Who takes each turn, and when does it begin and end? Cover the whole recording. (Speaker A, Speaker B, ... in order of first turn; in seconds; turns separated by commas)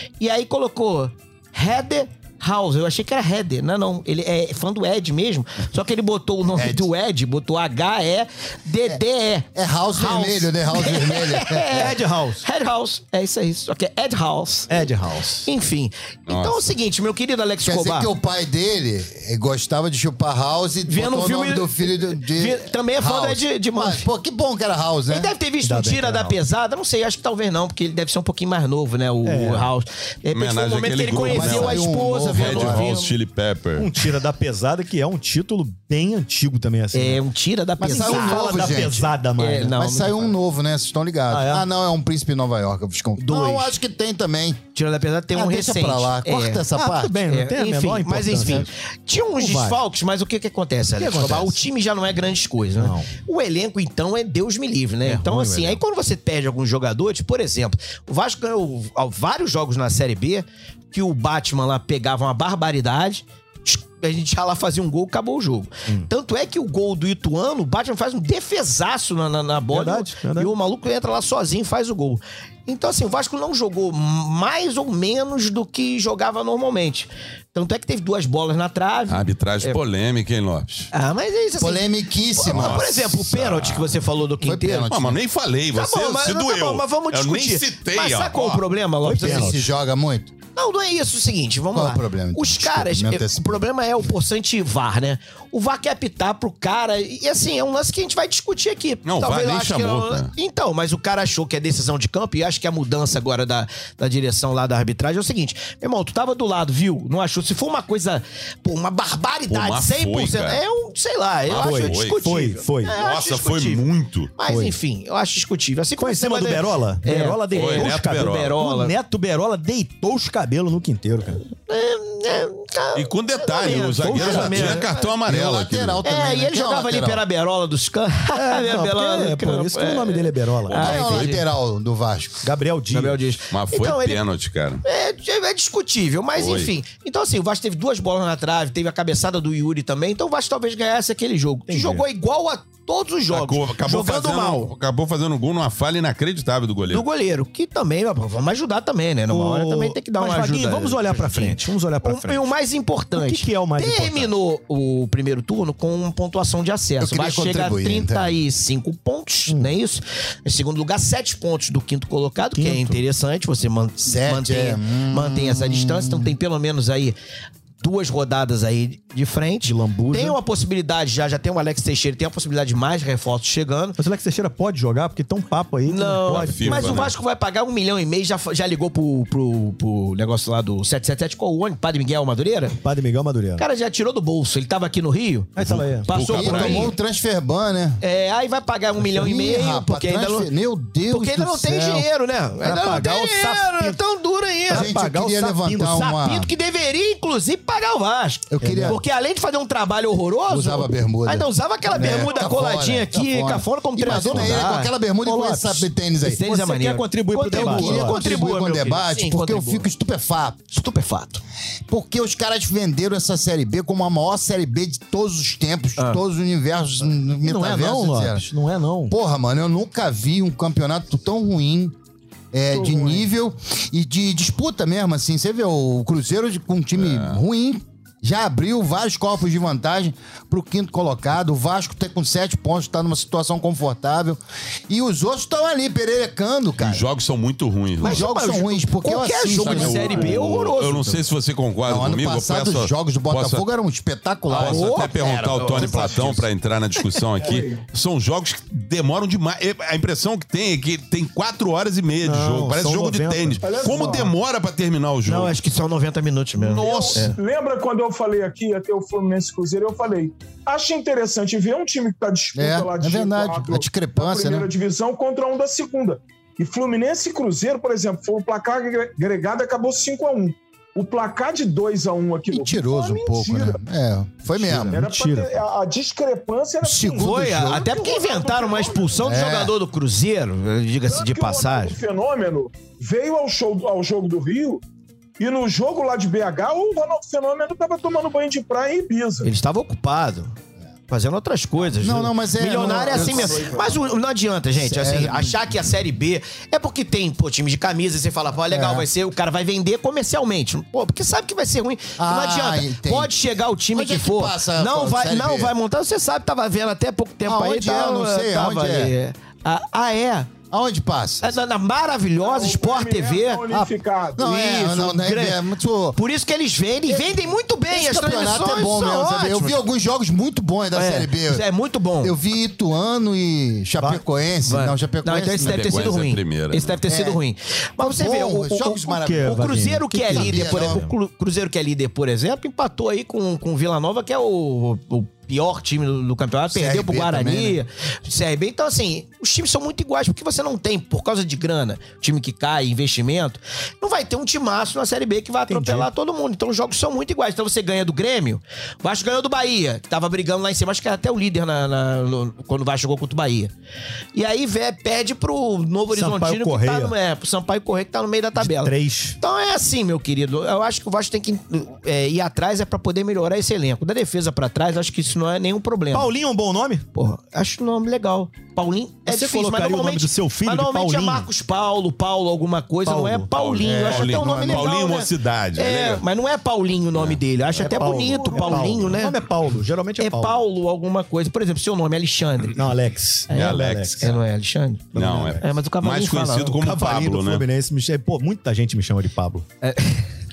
Speaker A: 0.2-14.9, Speaker B: 6.5-6.9, Speaker B: 9.6-11.8, Speaker C: 11.7-12.4, Speaker C: 14.7-15.5, Speaker A: 15.4-18.1, Speaker D: 16.3-16.7, Speaker B: 17.6-25.3, Speaker A: 20.9-24.1, Speaker A: 25.1-33.1, Speaker C: 25.6-26.4, Speaker C: 29.2-29.7, Speaker D: 30.3-33.9, Speaker B: 31.2-32.9, Speaker C: 33.8-37.2, Speaker A: 36.9-38.8, Speaker B: 37.8-39.1, Speaker C: 37.8-39.8, Speaker A: 39.3-40.3, Speaker B: 39.7-44.6, Speaker C: 41.3-41.7, Speaker A: 43.2-43.7, Speaker A: 44.7-46.6, Speaker B: 45.3-47.2, Speaker C: 46.7-48.7, Speaker A: 47.2-79.8, Speaker C: 49.4-49.8, Speaker C: 51.0-51.6, Speaker C: 52.8-53.1, Speaker C: 55.0-55.8, Speaker C: 69.7-70.5, Speaker D: 79.1-80.9, Speaker A: 80.9-81.8, Speaker B: 81.6-82.9, Speaker A: 82.4-84.9, Speaker D: 82.5-84.0, Speaker B: 84.4-85.2, Speaker D: 84.9-88.6, Speaker A: 85.7-89.6, Speaker C: 89.0-89.6, Speaker B: 89.2-90.4, Speaker A: 90.5-113.9, Speaker B: 91.7-93.6, Speaker D: 99.0-100.3, Speaker D: 109.5-110.6, Speaker D: 111.5-112.3, Speaker C: 111.5-113.0, Speaker D: 112.9-114.3, Speaker A: 114.4-119.0, Speaker C: 114.5-114.8, Speaker C: 116.0-121.4, Speaker D: 117.5-118.6, Speaker A: 121.6-125.0, Speaker D: 122.9-126.0, Speaker C: 124.0-124.9, Speaker B: 125.1-127.2, Speaker A: 126.0-131.4, Speaker C: 128.3-130.8, Speaker D: 130.7-131.4, Speaker B: 130.7-132.4, Speaker C: 132.4-133.3, Speaker A: 132.9-134.2, Speaker D: 133.5-134.8, Speaker A: 134.8-144.7, Speaker D: 136.3-136.7, Speaker C: 141.7-142.1, Speaker D: 143.3-147.1, Speaker A: 146.9-167.2, Speaker C: 149.3-152.4, Speaker C: 153.1-154.3, Speaker B: 157.0-158.4, Speaker C: 162.5-163.0, Speaker B: 164.0-166.3, Speaker A: 167.8-174.0, Speaker C: 169.6-170.4, Speaker C: 174.0-177.1, Speaker A: 175.9-182.8, Speaker D: 176.3-177.1, Speaker C: 182.8-183.7, Speaker A: 183.6-186.9, Speaker C: 185.6-186.1, Speaker D: 185.6-186.9, Speaker B: 186.3-188.0, Speaker A: 188.0-190.5, Speaker B: 189.1-192.1, Speaker A: 191.1-194.9, Speaker C: 192.6-194.0, Speaker C: 194.7-196.1, Speaker B: 194.7-196.5, Speaker A: 195.8-204.9, Speaker B: 198.5-199.0, Speaker C: 198.6-199.0, Speaker B: 200.5-206.4, Speaker E: 202.0-202.5, Speaker C: 204.0-208.5, Speaker A: 206.2-209.9, Speaker B: 207.5-210.8, Speaker A: 210.7-211.4, Speaker B: 211.9-218.5, Speaker C: 217.4-219.1, Speaker B: 219.1-221.9, Speaker B: 222.5-237.0, Speaker E: 222.7-223.2, Speaker D: 226.9-227.4, Speaker D: 236.8-238.3, Speaker A: 238.0-241.2, Speaker B: 238.0-240.3, Speaker D: 239.5-243.6, Speaker E: 239.9-240.3, Speaker B: 241.9-246.3, Speaker A: 244.5-246.4, Speaker D: 244.5-255.6, Speaker E: 247.4-247.8, Speaker C: 252.2-254.1, Speaker E: 253.6-254.3, Speaker A: 255.3-257.4, Speaker E: 256.6-273.8, Speaker B: 262.6-264.7, Speaker B: 272.5-275.0, Speaker C: 274.6-275.6, Speaker E: 274.9-279.2, Speaker B: 276.8-277.9, Speaker A: 277.2-282.0, Speaker B: 279.2-279.7, Speaker E: 281.1-284.8, Speaker E: 285.4-289.5, Speaker A: 289.4-290.6, Speaker A: 291.1-310.5, Speaker B: 291.9-293.7, Speaker E: 292.8-294.0, Speaker B: 294.8-295.6, Speaker B: 298.7-299.1, Speaker B: 302.2-303.3, Speaker B: 303.9-305.7, Speaker B: 307.4-309.1, Speaker B: 310.7-311.6, Speaker A: 311.4-313.6, Speaker E: 312.4-314.6, Speaker B: 313.7-316.2, Speaker A: 314.4-315.6, Speaker A: 316.1-319.8, Speaker B: 317.9-321.6, Speaker A: 320.9-322.4, Speaker B: 322.2-326.1, Speaker A: 324.6-353.7, Speaker D: 325.6-327.0, Speaker B: 327.1-327.4, Speaker B: 328.0-329.6, Speaker C: 329.2-331.1, Speaker B: 330.3-331.1, Speaker B: 336.7-337.8, Speaker C: 345.7-346.1, Speaker A: 354.3-366.3, Speaker C: 356.1-357.1, Speaker C: 358.6-359.4, Speaker C: 366.1-367.1, Speaker A: 367.1-379.4, Speaker C: 369.3-371.5, Speaker C: 373.1-373.8, Speaker D: 373.6-376.2, Speaker B: 373.8-374.9, Speaker D: 377.1-377.4, Speaker C: 377.7-380.6, Speaker A: 380.2-382.8, Speaker C: 382.8-384.4, Speaker D: 383.5-384.4, Speaker A: 383.5-386.8, Speaker C: 385.1-385.6, Speaker D: 385.1-387.6, Speaker C: 386.8-389.6, Speaker A: 389.8-390.3